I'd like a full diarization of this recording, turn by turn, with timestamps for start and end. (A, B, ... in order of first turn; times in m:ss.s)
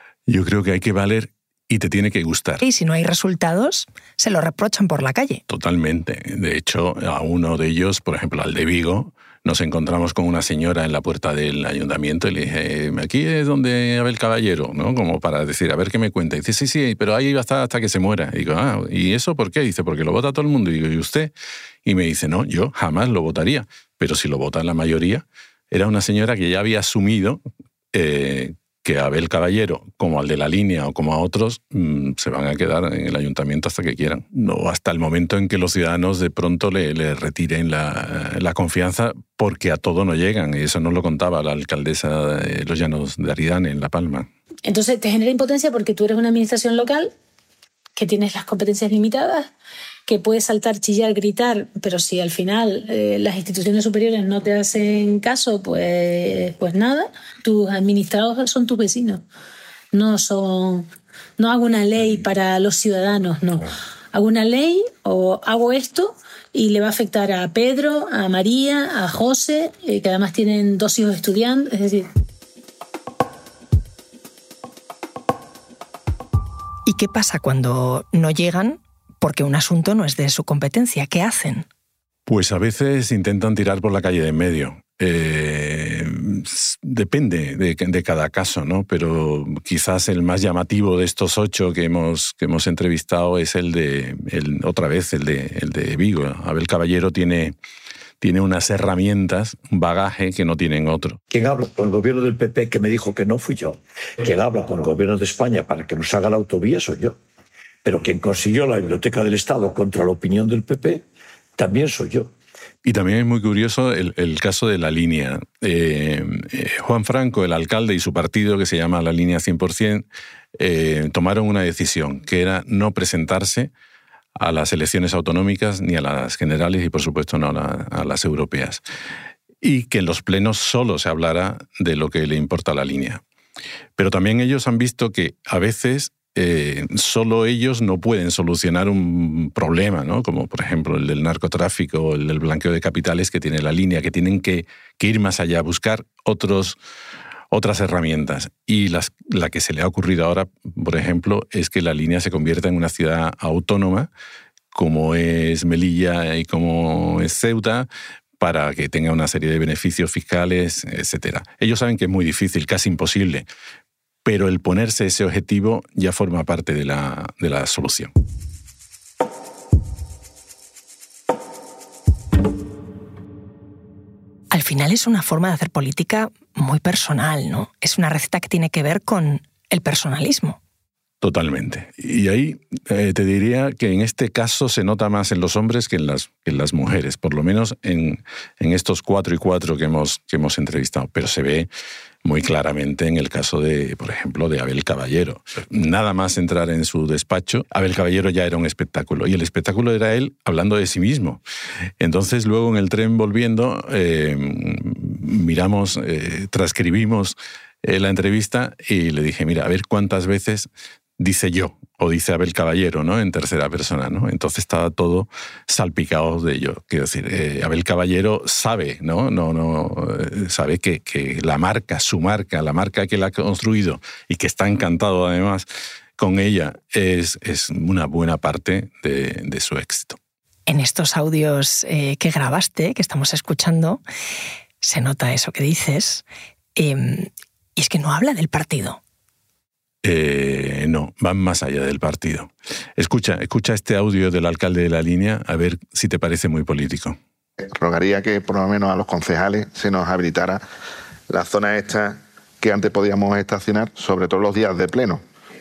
0:00.3-0:02.6 A
0:02.6-0:05.4 B
0:05.5-0:21.3 A
0:21.8-0:27.4 A
0:27.9-0:44.3 A
0:44.6-0:47.1 C
0:48.0-0:49.5 C
0:50.1-0:59.2 C
0:59.9-1:12.1 C
1:16.8-1:21.7 B
1:22.3-1:37.6 A
1:38.2-1:41.2 A
1:41.3-1:47.2 D
1:47.8-1:51.0 D
1:51.6-1:52.3 D
1:52.8-2:03.7 A
2:04.4-2:08.8 A
2:09.6-2:13.2 A
2:14.0-2:26.8 A
2:27.5-2:34.1 A
2:34.7-2:37.9 A
2:38.4-2:43.4 A
2:44.2-2:48.1 A
2:54.5-3:00.6 B
3:01.2-3:11.7 A
3:12.2-3:21.4 A
3:22.0-3:45.7 A
3:46.2-3:50.2 A
3:50.7-3:54.0 B
3:54.8-3:56.2 B
3:56.8-3:59.0 B
4:00.0-4:07.2 A
4:07.6-4:10.6 E
4:11.3-4:15.2 E